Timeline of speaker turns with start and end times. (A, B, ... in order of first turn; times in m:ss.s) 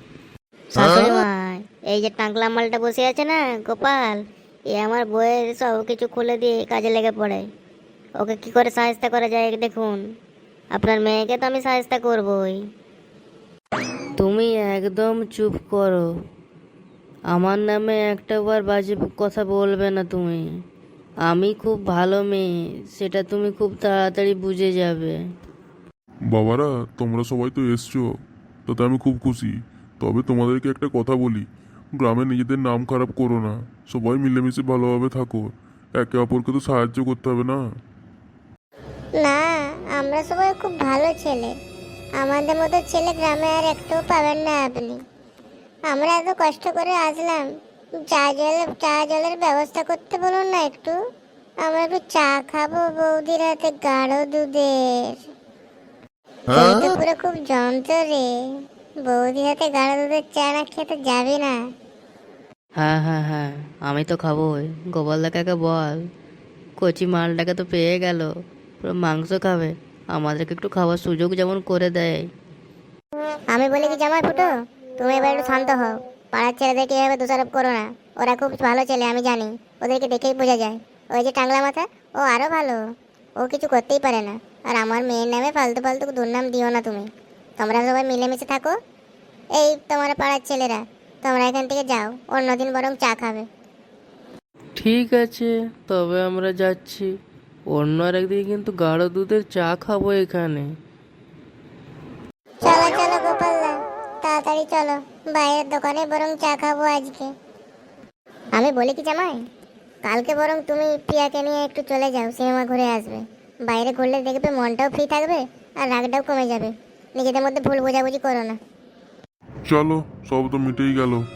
0:00.7-0:07.5 A
0:08.2-0:10.0 A
0:10.7-0:12.6 A
0:14.2-0:16.1 B
0:17.3-0:20.4 B
0:21.3-0:25.2 B
0:26.3-0:28.1 C
0:28.7-0:31.4 C
0:32.0-0:37.6 C
0:39.2-0:41.5 D
0:42.2-0:45.0 D
0:45.9-0:47.5 D
0:48.1-0:51.0 D
0:51.6-0:55.2 D
0:56.5-0:58.3 D
0:59.0-1:01.6 D
1:02.8-1:06.0 B
1:06.8-1:08.3 B
1:08.8-1:12.3 B
1:13.5-1:22.8 D
1:23.4-1:28.7 D
1:29.6-1:33.5 D
1:34.8-1:35.3 B
1:35.0-1:37.0 E
1:37.7-1:40.6 E
1:42.6-1:47.3 D
1:48.6-1:49.4 D
1:50.0-1:58.6 D
1:59.7-2:01.2 C